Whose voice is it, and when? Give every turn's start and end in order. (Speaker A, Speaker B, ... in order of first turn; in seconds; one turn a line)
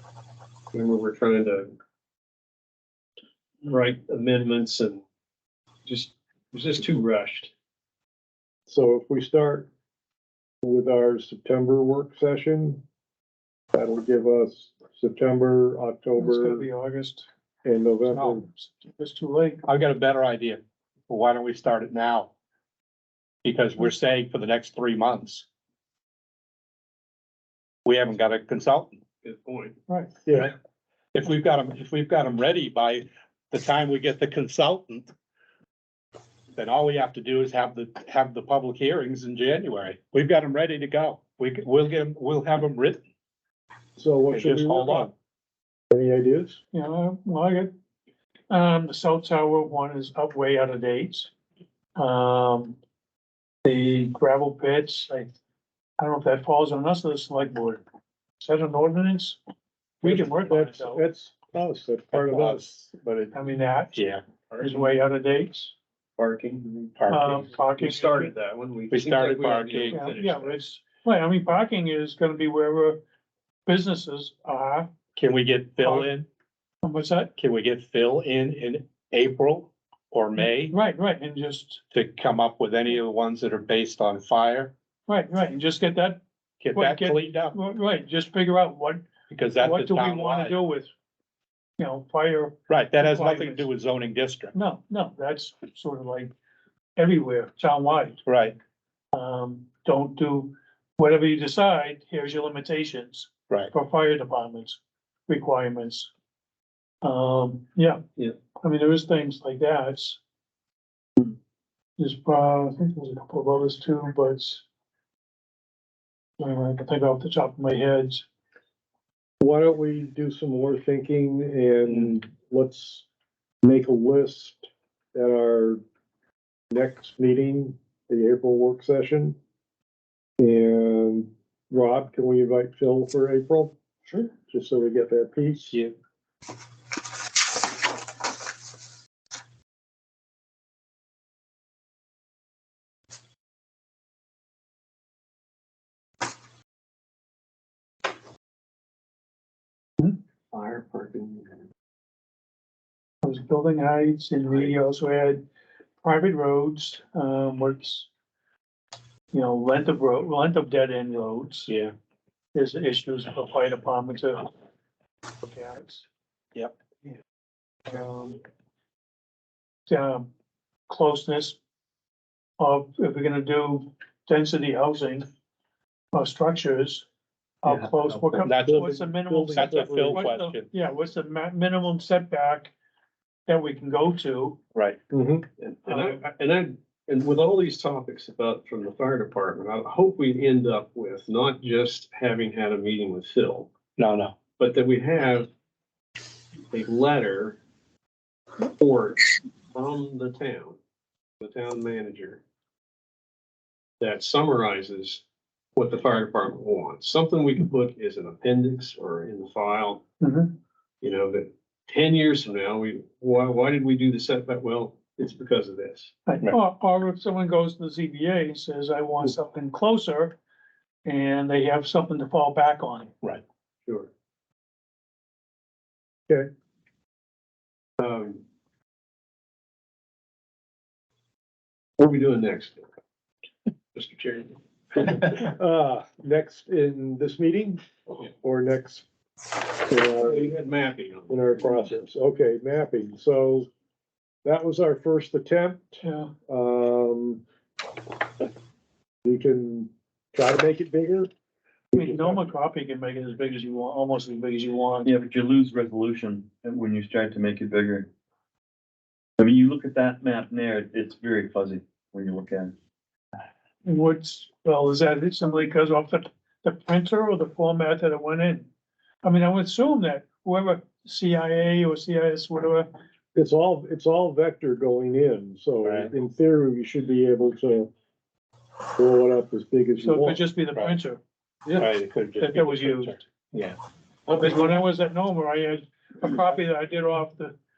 Speaker A: 0.7-1.8
Speaker A: 3.6-5.0
Speaker A: 5.9-7.5
Speaker B: 8.7-9.7
Speaker B: 10.6-12.8
Speaker B: 13.7-16.7
Speaker C: 16.2-17.3
Speaker B: 17.6-18.4
Speaker C: 18.1-19.6
Speaker D: 18.1-18.4
Speaker D: 19.6-22.3
Speaker D: 23.4-25.5
Speaker D: 27.9-29.0
Speaker A: 29.2-29.8
Speaker C: 29.9-30.2
Speaker D: 30.3-30.5
Speaker D: 31.1-35.1
Speaker D: 36.5-43.0
Speaker B: 44.0-45.1
Speaker D: 44.3-45.1
Speaker B: 45.9-46.6
Speaker C: 46.7-47.7
Speaker C: 48.5-51.3
Speaker C: 52.0-52.8
Speaker C: 53.6-55.3
Speaker C: 56.0-57.8
Speaker C: 58.4-59.4
Speaker C: 60.0-61.1
Speaker B: 60.0-63.4
Speaker D: 62.1-62.8
Speaker C: 63.3-64.0
Speaker D: 63.9-64.2
Speaker A: 64.5-65.0
Speaker C: 64.6-65.8
Speaker A: 66.2-70.6
Speaker D: 67.0-67.5
Speaker C: 67.1-68.4
Speaker D: 68.9-70.1
Speaker C: 69.9-73.0
Speaker C: 73.7-75.0
Speaker D: 75.1-76.3
Speaker C: 75.8-76.1
Speaker C: 76.8-77.3
Speaker D: 77.4-80.8
Speaker C: 80.4-81.8
Speaker D: 81.9-84.7
Speaker C: 85.1-86.2
Speaker D: 86.6-87.6
Speaker C: 86.7-90.9
Speaker D: 89.3-90.6
Speaker C: 91.8-93.7
Speaker D: 92.7-94.5
Speaker C: 94.5-96.3
Speaker C: 97.0-98.2
Speaker D: 98.2-98.6
Speaker C: 99.1-106.1
Speaker C: 107.0-110.2
Speaker C: 112.0-114.7
Speaker C: 116.4-118.3
Speaker B: 119.4-123.0
Speaker B: 123.6-125.8
Speaker B: 126.7-129.4
Speaker B: 130.4-133.8
Speaker B: 134.4-135.8
Speaker A: 150.5-151.6
Speaker C: 153.2-155.4
Speaker C: 156.0-158.1
Speaker C: 159.3-161.7
Speaker D: 161.7-161.9
Speaker C: 162.5-164.5
Speaker C: 165.4-166.1
Speaker C: 167.9-168.4
Speaker C: 169.9-170.3
Speaker C: 170.9-171.6
Speaker C: 172.6-175.3
Speaker C: 176.1-177.1
Speaker C: 177.6-182.7
Speaker E: 177.7-178.4
Speaker D: 178.3-178.9
Speaker B: 178.5-180.4
Speaker D: 179.5-180.7
Speaker C: 183.5-184.6
Speaker D: 184.7-185.0
Speaker B: 185.1-185.4
Speaker A: 185.6-193.7
Speaker C: 185.9-186.2
Speaker D: 194.0-194.3
Speaker A: 194.6-195.5
Speaker A: 196.7-197.6
Speaker A: 198.8-200.8
Speaker A: 201.4-202.4
Speaker A: 204.0-205.2
Speaker A: 205.8-210.0
Speaker C: 210.2-210.6
Speaker A: 211.0-216.1
Speaker C: 216.3-220.4
Speaker C: 221.1-223.1
Speaker A: 228.0-228.4
Speaker A: 232.0-232.9
Speaker A: 233.9-234.6
Speaker B: 234.9-239.1
Speaker B: 239.9-240.5
Speaker A: 240.2-241.9
Speaker B: 241.3-243.7
Speaker B: 244.4-247.4
Speaker C: 246.0-246.3
Speaker B: 249.2-251.3
Speaker B: 251.9-252.5
Speaker C: 251.9-255.1
Speaker E: 255.0-258.1
Speaker E: 259.4-262.7
Speaker C: 263.9-268.7
Speaker C: 269.2-272.9
Speaker B: 273.4-277.9
Speaker D: 275.8-276.1
Speaker B: 279.0-280.4
Speaker C: 280.0-281.2
Speaker D: 280.6-281.0
Speaker D: 281.8-283.2
Speaker C: 282.4-283.2
Speaker A: 284.3-284.8
Speaker C: 284.3-287.6